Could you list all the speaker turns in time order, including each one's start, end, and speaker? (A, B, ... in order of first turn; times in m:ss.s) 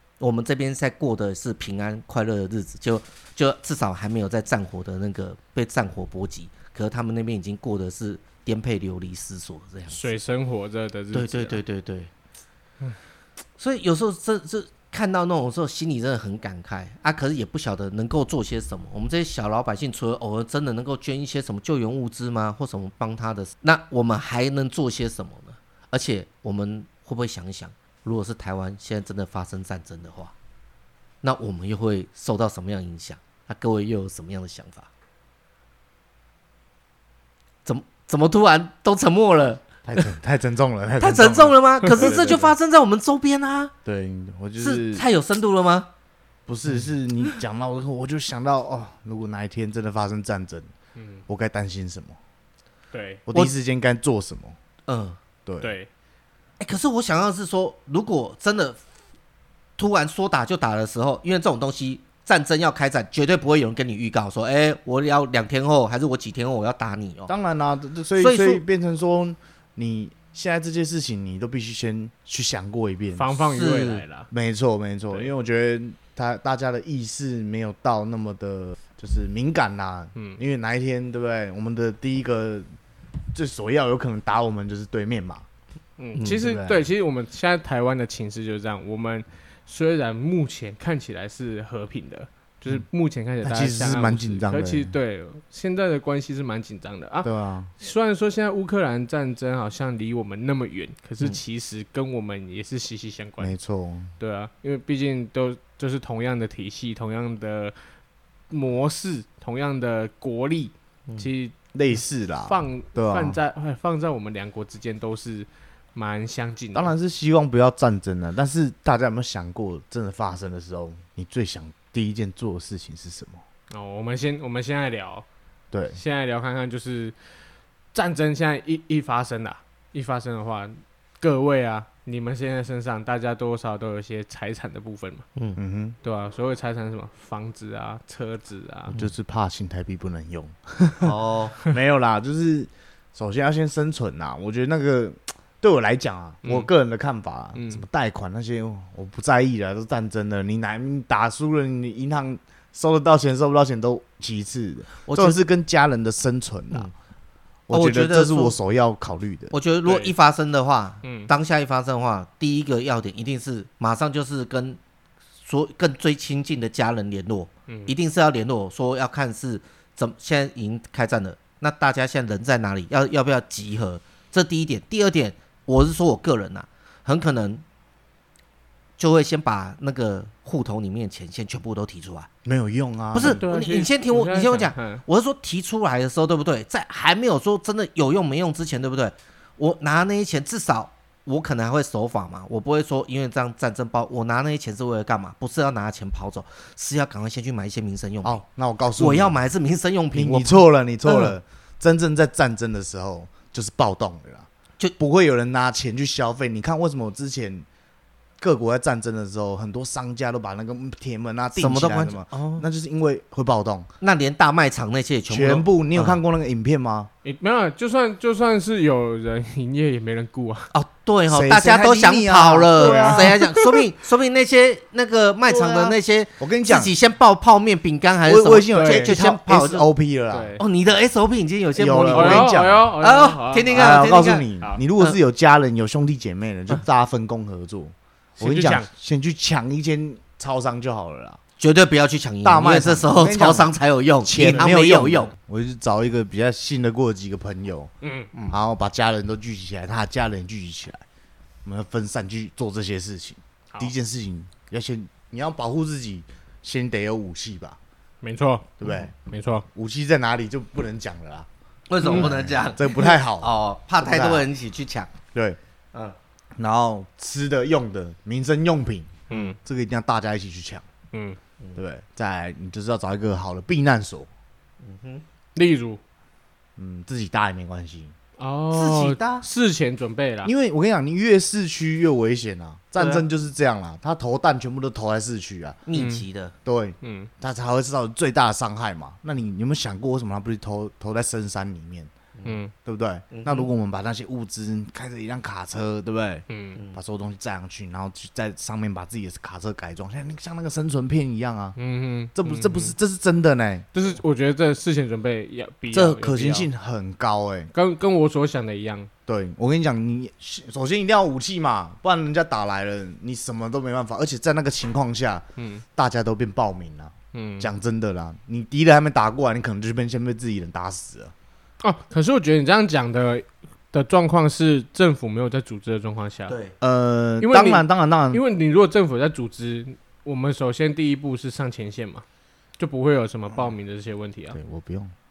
0:00.2-0:10.2 A
0:09.9-0:11.6 B
0:11.1-0:12.1 A
0:13.6-0:30.3 A
0:31.2-0:34.9 A
0:37.6-0:39.6 A
0:39.8-0:42.5 C
0:41.0-0:43.7 A
0:43.8-0:45.0 C
0:44.6-0:45.9 A
0:46.5-0:50.7 C
0:51.0-0:51.2 B
0:51.3-0:52.2 C
0:52.9-0:53.2 B
0:53.3-0:54.6 C
0:54.9-0:55.2 A
0:55.5-0:55.7 C
0:55.6-0:55.9 B
0:56.6-0:58.8 A
0:59.8-1:07.3 A
1:07.3-1:13.3 C
1:08.2-1:08.6 A
1:13.2-1:14.3 B
1:13.5-1:14.0 A
1:14.3-1:22.7 C
1:20.2-1:20.4 B
1:23.3-1:25.4 C
1:26.0-1:43.5 B
1:26.2-1:26.9 C
1:33.4-1:34.9 C
1:37.2-1:37.7 C
1:43.4-1:44.1 C
1:44.2-1:47.8 B
1:48.5-1:51.6 B
1:51.7-1:53.4 C
1:52.4-1:56.9 B
1:56.7-2:03.4 C
2:03.7-2:05.3 B
2:05.7-2:06.0 C
2:05.9-2:07.2 B
2:07.9-2:15.2 B
2:15.6-2:16.0 C
2:16.0-2:18.9 B
2:19.0-2:36.9 C
2:21.0-2:21.6 A
2:26.4-2:26.7 B
2:27.6-2:27.8 B
2:35.0-2:35.4 A
2:37.7-2:39.6 C
2:37.7-2:38.6 A
2:39.5-2:44.8 A
2:39.8-2:40.1 B
2:41.0-2:41.3 B
2:45.4-2:57.6 A
2:47.7-2:47.9 B
2:59.0-3:02.3 A
3:02.4-3:03.4 C
3:03.1-3:18.4 A
3:03.2-3:05.0 B
3:18.2-3:19.4 C
3:19.0-3:21.3 A
3:20.1-3:27.7 C
3:28.4-3:33.9 C
3:31.6-3:32.7 A
3:34.0-3:36.2 A
3:35.3-3:37.1 C
3:37.2-3:40.7 B
3:40.7-3:49.9 A
3:41.3-3:43.4 C
3:42.8-3:43.6 B
3:45.5-3:46.9 C
3:48.3-3:50.6 C
3:48.7-3:49.2 B
3:50.3-3:50.6 B
3:50.6-3:54.5 A
3:51.8-3:52.9 C
3:52.1-3:54.8 B
3:53.7-4:01.4 C
3:58.4-3:58.9 B
4:01.6-4:05.3 A
4:02.4-4:03.7 C
4:04.2-4:07.9 C
4:08.0-4:08.3 B
4:08.5-4:11.0 C
4:11.6-4:17.8 C
4:18.2-4:19.7 B
4:18.8-4:19.1 C
4:19.7-4:21.5 C
4:21.9-4:25.1 A
4:22.0-4:24.5 C
4:22.0-4:22.3 B
4:26.6-4:30.8 C
4:29.3-4:29.6 B
4:31.1-4:31.4 B
4:31.8-4:34.3 C
4:34.8-4:35.2 A
4:35.6-4:36.0 B
4:36.8-4:38.1 C
4:38.4-4:40.5 B
4:38.7-4:39.5 A
4:40.4-4:45.8 C
4:45.9-4:46.5 A
4:46.0-4:46.2 B
4:46.6-4:52.1 C
4:47.0-4:47.3 B
4:52.4-4:52.6 A
4:52.4-4:52.7 B
4:52.8-5:01.8 C
4:53.3-4:53.7 A
4:56.5-4:56.8 B
5:01.8-5:03.0 B
5:02.4-5:03.9 C
5:03.9-5:06.7 B
5:05.9-5:07.7 C
5:07.7-5:09.1 B
5:09.3-5:15.4 C
5:15.6-5:15.8 B
5:16.0-5:21.3 C
5:17.3-5:17.7 B
5:21.8-5:26.6 B
5:26.5-5:26.7 A
5:26.8-5:28.4 C
5:27.4-5:32.2 B
5:32.8-5:34.6 B
5:34.5-5:35.1 C